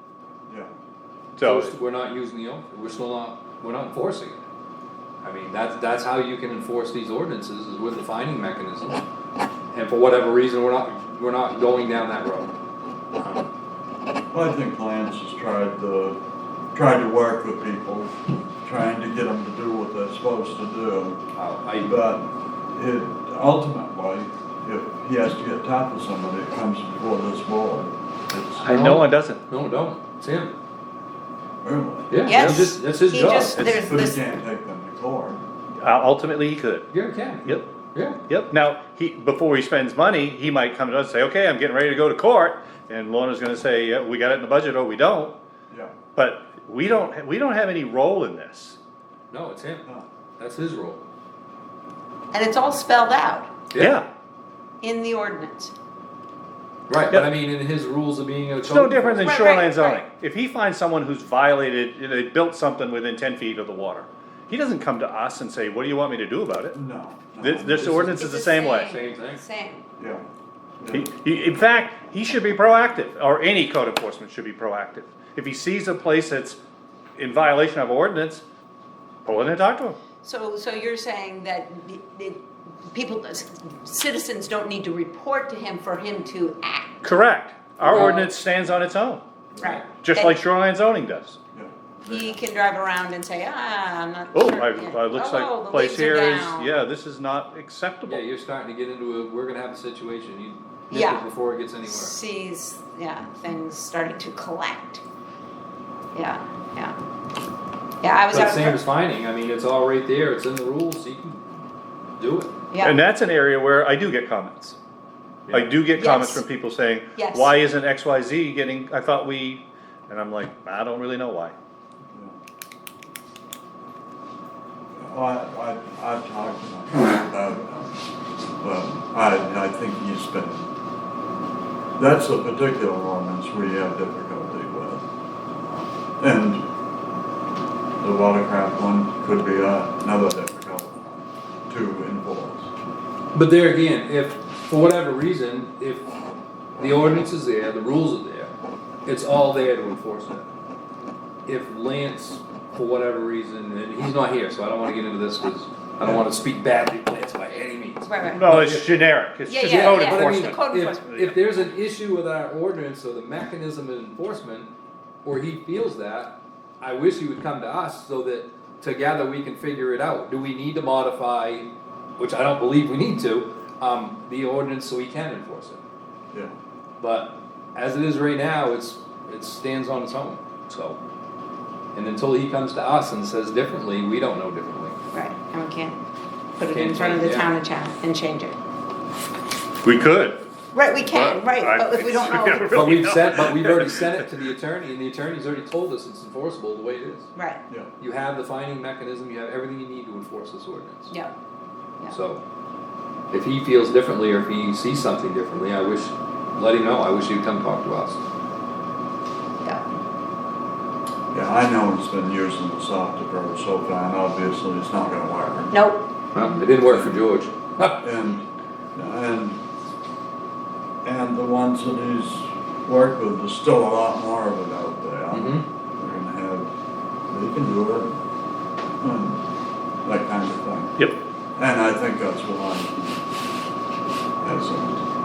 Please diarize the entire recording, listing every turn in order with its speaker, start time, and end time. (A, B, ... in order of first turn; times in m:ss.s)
0:01.4-0:01.7 A
0:01.4-0:04.5 B
0:05.2-0:09.0 B
0:09.7-0:12.5 B
0:13.2-0:13.5 B
0:14.3-0:16.2 C
0:16.7-0:21.2 C
0:21.4-0:22.0 B
0:21.8-0:28.6 C
0:28.6-0:29.4 A
0:28.6-0:30.5 B
0:31.6-0:32.2 C
0:32.1-0:33.6 B
0:32.2-0:34.2 D
0:32.3-0:32.7 A
0:33.7-0:35.4 C
0:35.8-0:36.9 A
0:36.9-0:38.2 B
0:38.3-0:45.3 A
0:46.2-0:48.8 A
0:49.3-0:49.9 B
0:50.4-0:51.0 B
0:52.3-0:53.5 D
0:53.8-0:54.0 A
0:54.8-0:55.7 D
0:56.9-0:59.4 B
0:58.6-1:06.8 A
0:59.2-1:00.0 D
1:06.7-1:08.1 C
1:07.4-1:08.9 A
1:07.8-1:08.2 B
1:08.0-1:09.8 D
1:08.7-1:09.4 B
1:10.0-1:10.2 C
1:10.8-1:11.1 C
1:10.9-1:16.6 A
1:17.2-1:18.4 A
1:19.2-1:20.0 A
1:20.2-1:27.0 D
1:27.0-1:29.2 A
1:27.8-1:28.3 B
1:29.6-1:30.4 D
1:30.0-1:31.4 A
1:31.5-1:32.2 C
1:32.0-1:36.8 D
1:34.3-1:38.2 A
1:38.1-1:42.1 B
1:40.9-1:41.2 D
1:41.8-1:45.0 D
1:46.1-1:47.0 D
1:48.0-1:48.8 D
1:48.3-1:51.4 B
1:52.2-1:52.5 B
1:52.7-1:53.0 D
1:52.8-1:54.8 A
1:55.5-1:55.7 B
1:55.5-2:01.6 A
1:55.9-1:56.4 D
1:57.2-1:57.5 D
2:05.0-2:08.0 C
2:08.6-2:10.7 C
2:12.0-2:15.1 C
2:15.6-2:16.6 C
2:18.0-2:22.7 C
2:23.3-2:26.1 B
2:26.8-2:28.5 B
2:29.1-2:30.4 B
2:31.5-2:39.0 B
2:38.0-2:38.5 D
2:38.3-2:41.4 A
2:39.5-2:41.0 D
2:39.6-2:44.7 B
2:45.2-2:55.8 B
2:57.0-3:01.0 B
3:01.9-3:05.0 B
3:05.1-3:06.0 D
3:06.6-3:08.6 D
3:06.7-3:07.5 B
3:09.8-3:10.4 A
3:10.7-3:13.0 D
3:10.9-3:14.0 A
3:12.7-3:17.3 B
3:17.4-3:17.6 D
3:18.0-3:21.2 B
3:22.1-3:22.4 B
3:23.3-3:28.2 B
3:31.3-3:35.7 C
3:35.7-3:36.1 D
3:36.3-3:38.0 B
3:38.0-3:39.6 C
3:41.0-3:46.7 C
3:45.3-3:45.6 B
3:47.3-3:48.2 C
3:49.0-3:49.4 C
3:50.0-3:51.0 C
3:51.6-3:53.2 C
3:54.4-3:55.0 C